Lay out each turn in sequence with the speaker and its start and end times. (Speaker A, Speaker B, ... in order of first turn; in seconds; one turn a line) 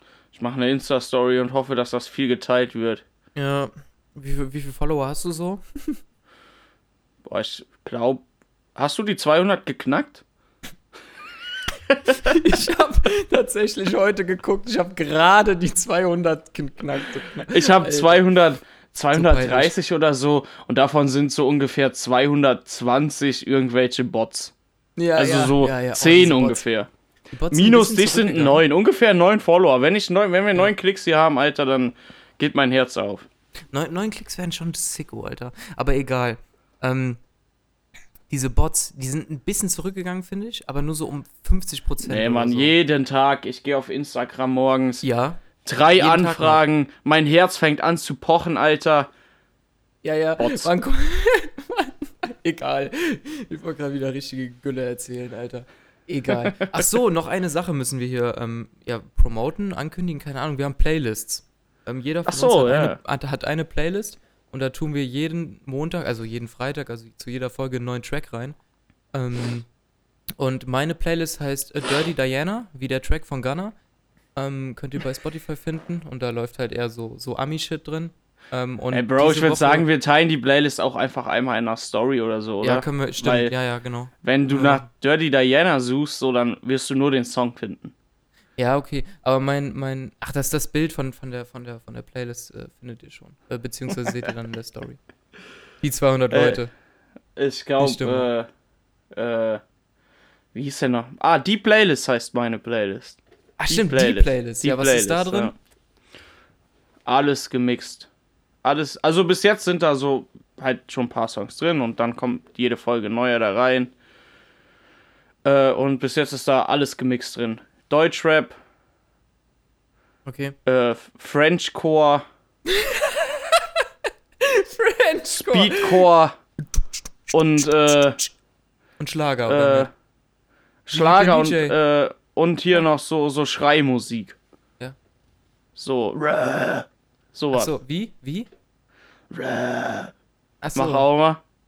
Speaker A: 0.3-3.0
Speaker B: 3.3-6.0
Speaker A: 7.2-8.2
Speaker A: 8.8-10.2
Speaker B: 12.1-18.2
Speaker A: 17.5-24.5
Speaker B: 19.1-19.7
Speaker B: 25.0-26.6
Speaker A: 25.1-26.9
Speaker B: 27.3-28.6
Speaker A: 27.5-33.3
Speaker B: 33.7-37.2
Speaker B: 38.3-42.7
Speaker A: 42.0-45.0
Speaker B: 45.0-45.4
Speaker A: 45.6-49.1
Speaker B: 45.9-46.6
Speaker B: 50.0-68.5
Speaker A: 50.4-50.7
Speaker A: 56.3-56.7
Speaker A: 62.2-63.0
Speaker B: 69.1-69.7
Speaker B: 70.4-73.7
Speaker B: 74.3-79.9
Speaker A: 78.9-83.5
Speaker B: 82.6-84.8
Speaker A: 84.2-87.9
Speaker B: 88.6-95.0
Speaker B: 95.8-96.7
Speaker A: 96.3-96.6
Speaker A: 97.4-98.5
Speaker B: 97.8-98.3
Speaker A: 99.1-99.6
Speaker A: 100.5-105.5
Speaker B: 103.6-105.5
Speaker A: 107.1-108.1
Speaker A: 108.6-113.9
Speaker A: 115.4-118.5
Speaker B: 120.2-120.5
Speaker A: 120.6-122.2
Speaker B: 122.7-123.9
Speaker B: 124.4-126.0
Speaker A: 125.3-126.4
Speaker B: 127.3-128.3
Speaker A: 127.3-128.2
Speaker B: 129.0-129.9
Speaker A: 129.5-129.9
Speaker A: 130.8-134.4
Speaker B: 130.9-131.8
Speaker A: 135.8-137.7
Speaker B: 137.5-138.5
Speaker A: 139.3-140.1
Speaker B: 140.6-141.1
Speaker A: 140.7-141.4